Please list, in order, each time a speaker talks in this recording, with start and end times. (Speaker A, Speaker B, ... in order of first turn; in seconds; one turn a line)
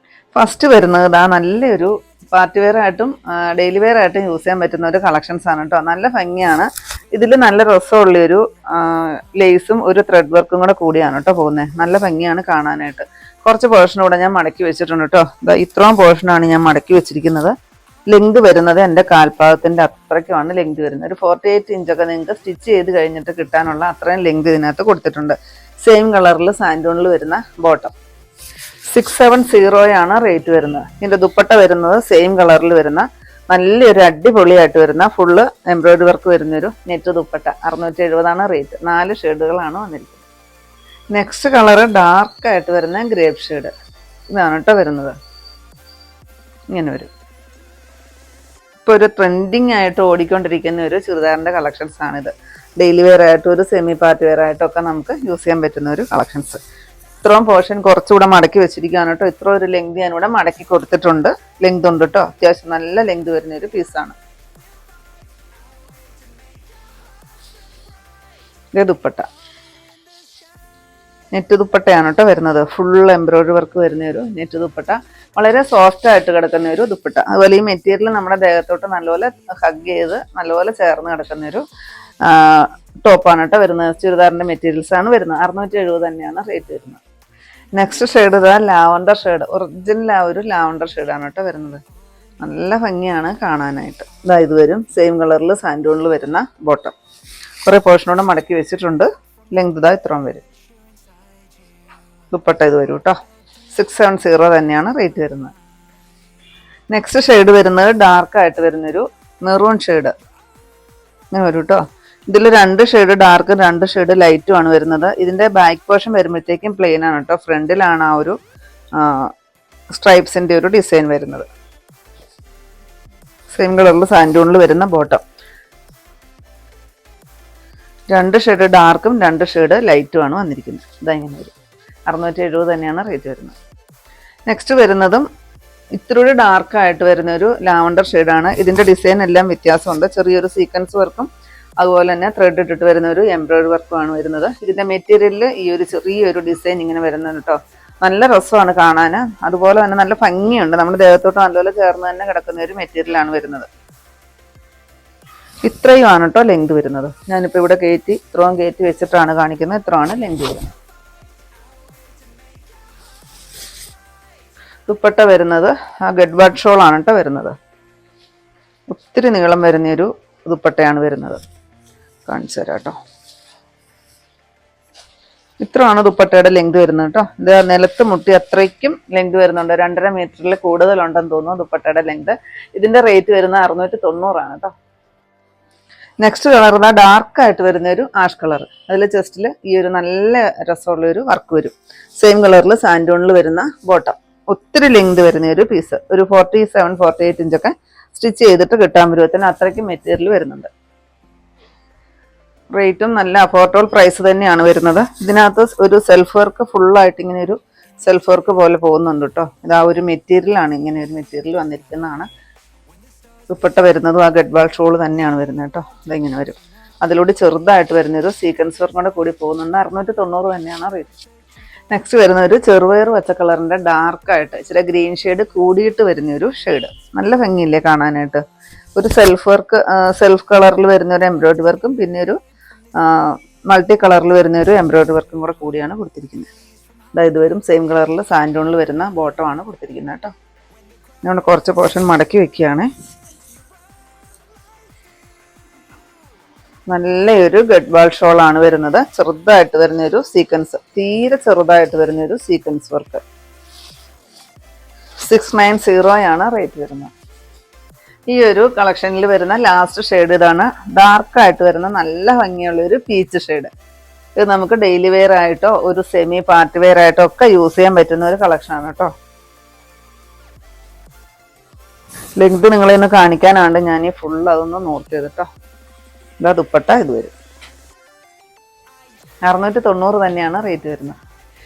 Speaker A: 0.3-17.5
Speaker A: 18.1-27.9
Speaker A: 28.9-40.2
Speaker A: 41.1-43.7
Speaker A: 44.3-45.2
Speaker A: 46.7-47.1
Speaker A: 48.9-56.6
Speaker A: 57.2-64.2
Speaker A: 68.7-69.3
Speaker A: 71.3-81.6
Speaker A: 82.2-87.0
Speaker A: 87.8-91.8
Speaker A: 92.4-97.0
Speaker A: 97.6-100.4
Speaker A: 102.3-103.2
Speaker A: 103.7-105.5
Speaker A: 106.9-110.1
Speaker A: 111.3-118.4
Speaker A: 119.0-119.3
Speaker A: 119.9-121.5
Speaker A: 123.5-125.2
Speaker A: 128.1-131.5
Speaker A: 132.1-133.6
Speaker A: 134.5-135.3
Speaker A: 135.9-153.7
Speaker A: 155.6-160.7
Speaker A: 164.9-167.6
Speaker A: 168.9-171.4
Speaker A: 172.3-173.0
Speaker A: 175.6-184.7
Speaker A: 186.2-200.7
Speaker A: 202.7-212.3
Speaker A: 213.5-221.2
Speaker A: 221.9-228.4
Speaker A: 229.0-232.4
Speaker A: 233.0-236.5
Speaker A: 237.1-240.3
Speaker A: 241.2-242.9
Speaker A: 246.9-253.2
Speaker A: 255.2-257.1
Speaker A: 258.3-263.7
Speaker A: 264.4-269.1
Speaker A: 272.4-275.5
Speaker A: 276.4-277.3
Speaker A: 279.5-281.2